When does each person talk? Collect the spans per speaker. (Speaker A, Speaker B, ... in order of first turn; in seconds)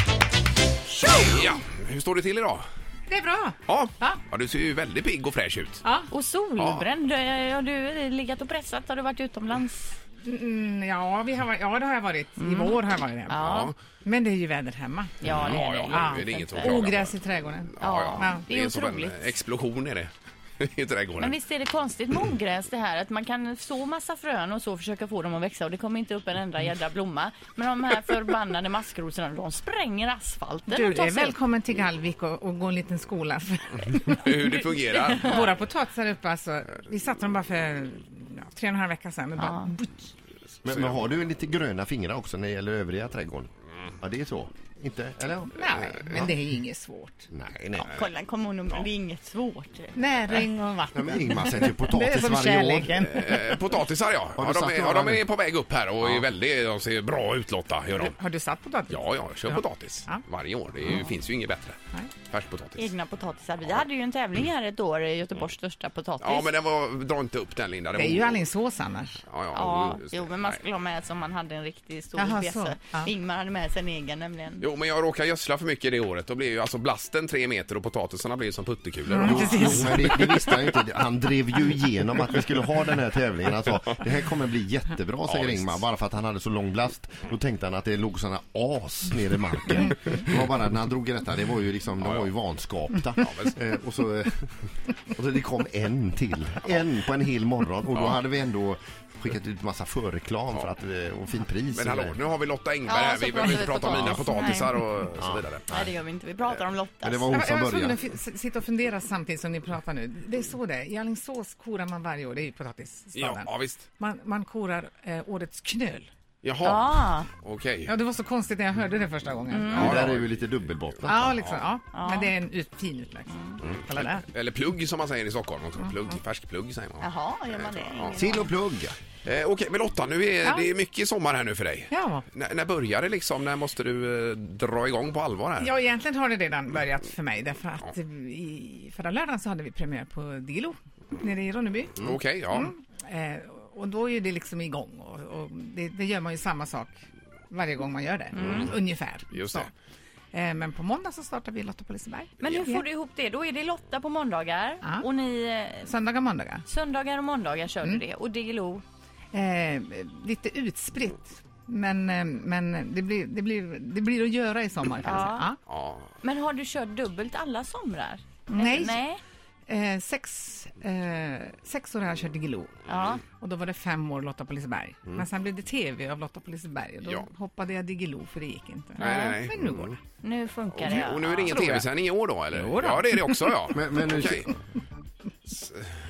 Speaker A: 1.0-1.4, 3.1-4.2, 5.8-6.1, 10.2-13.4, 14.0-18.5, 30.7-40.1, 45.5-47.3, 50.0-53.8, 57.9-60.2, 67.9-69.2, 72.2-73.1, 79.1-80.4, 107.3-116.1, 117.9-120.1, 121.1-124.3, 130.4-130.7, 131.9-132.3, 135.6-149.7, 150.3-152.8, 154.8-155.1, 155.8-156.6, 159.3-165.6, 168.5-169.0, 169.7-172.7, 173.3-180.0, 182.5-183.8
Speaker B: 1.2-2.6, 3.7-5.8, 6.6-6.8, 13.4-13.8, 15.2-21.4, 34.1-35.4, 40.7-41.1, 46.0-46.3, 53.0-58.1, 58.9-62.9, 66.2-68.5, 69.3-70.6, 74.6-80.6, 85.3-85.8, 92.0-92.3, 93.2-93.5, 97.9-98.2, 101.7-105.7, 113.2-113.9, 116.4-117.9, 119.7-120.3, 121.1-121.6, 123.6-128.5, 129.2-135.7, 142.0-142.7, 148.3-148.7, 149.3-149.7, 165.7-166.1, 179.0-180.0, 180.7-184.5, 185.5-185.9
Speaker C: 6.1-9.9, 12.4-13.7, 15.2-16.9, 17.8-19.4, 21.2-31.4, 34.4-35.5, 39.4-39.7, 47.8-50.0, 62.8-66.5, 69.5-74.7, 102.8-104.8, 105.7-107.5, 116.6-117.3, 119.5-120.0, 121.9-122.3, 123.3-123.6, 127.0-128.5, 148.4-148.7, 152.4-155.9, 156.7-158.8, 165.0-165.5, 166.2-169.2, 172.9-173.2, 179.0-179.4, 180.2-181.8
Speaker D: 40.6-46.3, 47.3-47.9, 50.9-53.0, 54.4-55.3, 79.2-102.2, 105.2-105.9, 107.0-108.0, 119.7-121.4, 128.2-129.0, 183.7-184.5